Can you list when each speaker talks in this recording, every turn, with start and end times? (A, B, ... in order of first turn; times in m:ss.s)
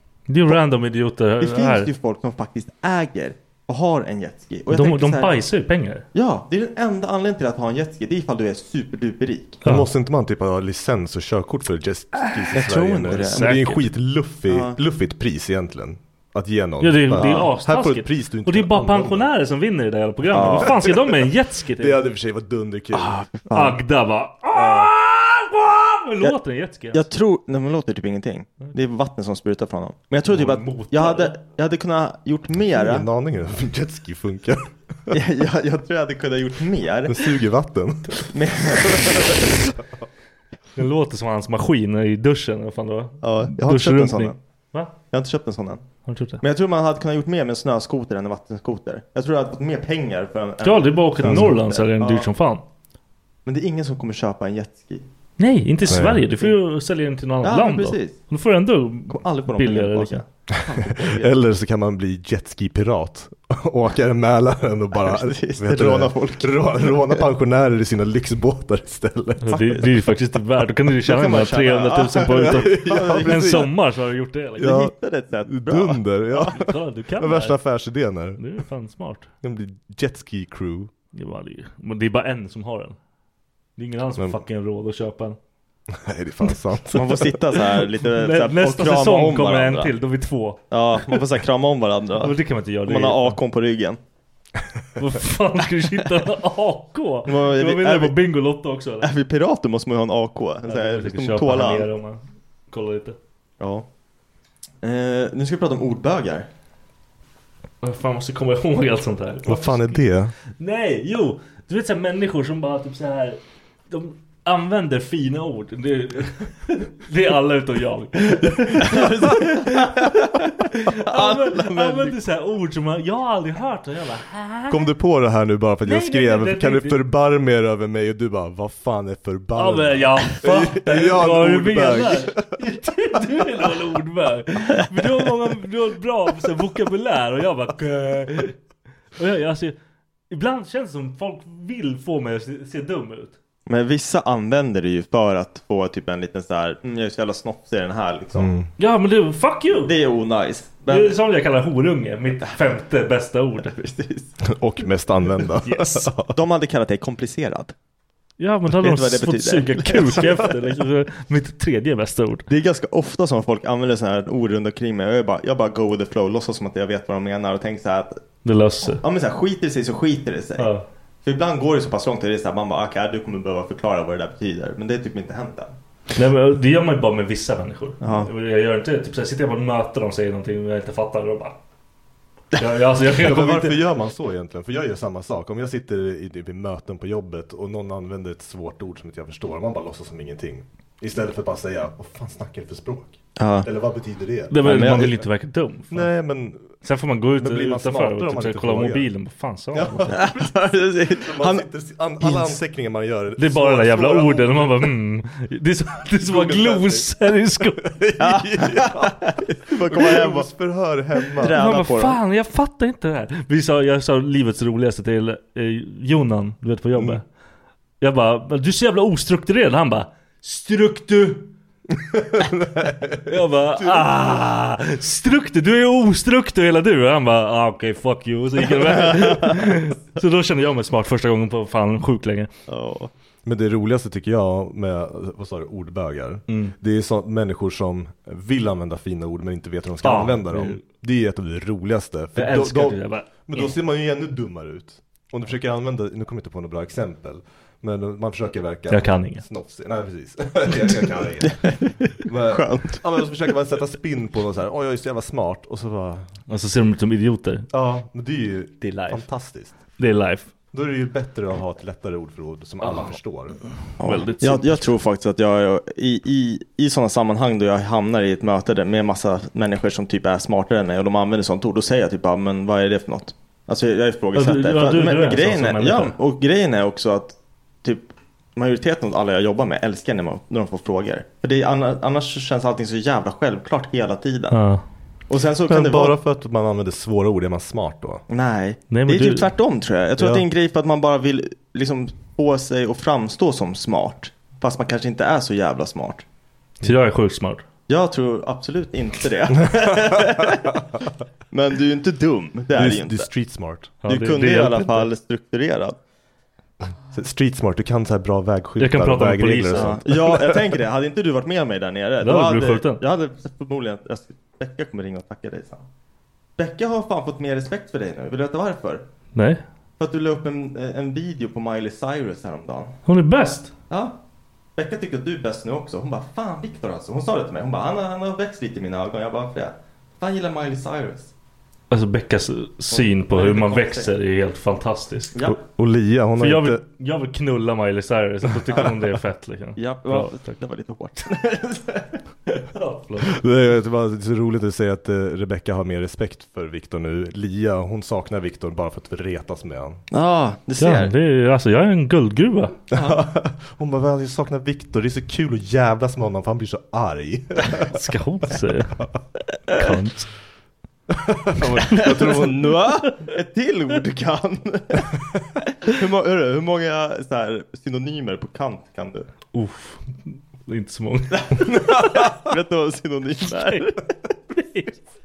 0:00.3-0:01.9 A
0:01.4-0:05.3 B
0:04.7-0:06.0 A
0:06.1-0:09.6 B
0:09.6-0:19.3 C
0:12.5-0:13.5 B
0:13.1-0:13.8 A
0:14.5-0:14.8 B
0:16.8-0:22.0 A
0:17.1-0:17.5 B
0:20.3-0:20.7 B
0:20.3-0:21.2 C
0:21.8-0:23.2 C
0:22.9-0:23.8 B
0:23.5-0:27.0 A
0:24.6-0:24.9 C
0:26.9-0:33.0 B
0:30.3-0:31.3 A
0:32.6-0:35.1 C
0:35.1-0:37.3 B
0:37.0-0:39.5 C
0:38.3-0:39.5 B
0:40.8-0:44.9 A
0:43.2-0:44.4 B
0:45.1-0:45.8 B
0:46.0-0:46.4 A
0:46.4-0:52.3 B
0:50.6-0:52.6 A
0:51.2-0:51.5 C
0:53.4-0:55.0 B
0:55.4-1:00.2 A
0:55.9-0:56.2 C
0:56.0-0:56.5 B
0:57.4-0:58.2 B
0:59.1-1:01.4 B
1:01.0-1:09.8 C
1:05.0-1:07.2 B
1:09.4-1:14.8 A
1:11.0-1:13.6 B
1:12.4-1:13.7 C
1:14.6-1:14.9 C
1:14.6-1:16.1 B
1:15.4-1:18.4 C
1:16.4-1:17.6 A
1:18.4-1:19.3 A
1:19.4-1:20.9 C
1:21.1-1:23.0 A
1:23.8-1:25.4 A
1:25.9-1:27.3 C
1:26.9-1:29.9 B
1:28.0-1:30.6 A
1:30.7-1:34.0 B
1:32.2-1:33.4 A
1:35.0-1:39.1 A
1:37.2-1:38.1 B
1:39.0-1:41.9 B
1:40.7-1:43.2 A
1:43.6-1:43.8 B
1:44.8-1:46.5 B
1:47.8-1:50.0 A
1:49.4-1:50.3 C
1:50.6-2:00.1 A
1:58.8-2:02.2 B
2:00.9-2:04.9 A
2:04.7-2:12.6 C
2:05.8-2:07.0 A
2:09.6-2:18.5 A
2:19.2-2:19.7 A
2:20.3-2:23.3 A
2:23.7-2:28.5 B
2:28.3-2:28.7 C
2:28.8-2:29.9 A
2:29.8-2:31.2 B
2:30.9-2:33.7 A
2:33.6-2:34.3 B
2:34.4-2:36.3 C
2:35.6-2:36.0 A
2:36.2-2:37.7 B
2:38.4-2:42.5 A
2:38.8-2:40.5 B
2:42.5-2:48.2 B
2:48.4-2:49.0 A
2:49.0-2:50.7 B
2:50.6-2:50.8 A
2:51.2-2:55.7 B
2:56.1-3:01.6 A
2:58.0-2:58.3 B
3:02.6-3:03.8 A
3:03.1-3:15.2 C
3:13.4-3:13.7 B
3:14.5-3:16.1 A
3:14.6-3:15.1 B
3:15.9-3:16.8 C
3:16.8-3:20.1 A
3:17.4-3:19.1 C
3:19.7-3:24.9 C
3:20.1-3:21.7 B
3:22.2-3:22.6 B
3:23.4-3:28.0 A
3:26.2-3:27.1 C
3:27.8-3:31.6 C
3:28.2-3:30.5 B
3:31.4-3:32.2 B
3:31.5-3:37.2 A
3:38.0-3:41.5 A
3:42.0-3:44.1 C
3:43.2-3:52.5 A
3:49.0-3:49.6 B
3:52.7-3:53.1 B
3:53.4-4:16.3 C
3:56.5-3:56.7 A
4:00.0-4:00.8 A
4:02.4-4:03.7 A
4:08.9-4:09.4 A
4:11.5-4:11.9 B
4:12.5-4:13.0 B
4:16.5-4:17.7 A
4:17.7-4:19.8 C
4:18.8-4:19.2 A
4:20.0-4:20.5 A
4:20.7-4:23.6 C
4:22.8-4:23.2 A
4:24.0-4:44.6 B
4:24.0-4:24.9 A
4:34.3-4:36.1 A
4:44.5-4:44.8 A
4:45.3-4:46.2 B
4:45.7-4:48.2 C
4:48.3-4:56.2 B
4:48.9-4:49.5 A
4:50.2-4:50.4 C
4:56.8-4:57.6 A
4:57.9-5:00.8 B
5:01.5-5:03.3 B
5:02.7-5:03.9 C
5:04.0-5:05.1 A
5:04.0-5:06.0 B
5:07.1-5:10.6 C
5:08.8-5:10.0 A
5:09.7-5:15.8 B
5:12.2-5:13.0 A
5:16.6-5:19.0 B
5:19.3-5:19.6 A
5:20.0-5:22.9 B
5:23.0-5:23.7 A
5:23.9-5:24.2 B
5:24.8-5:31.3 B
5:31.9-5:35.3 A
5:32.9-5:34.1 B
5:35.4-5:36.8 C
5:36.4-5:40.4 A
5:39.8-5:42.2 B
5:42.7-5:43.4 A
5:43.2-5:50.0 C
5:50.1-5:51.1 B
5:50.8-5:52.8 A
5:52.9-5:53.3 B
5:52.9-5:57.9 C
5:57.8-5:59.0 A
5:59.7-6:00.3 A
6:01.1-6:02.7 C
6:01.9-6:05.1 B
6:01.9-6:02.4 A
6:05.8-6:09.3 B
6:09.5-6:11.8 A
6:11.3-6:14.0 B
6:13.5-6:13.9 A
6:14.5-6:14.9 A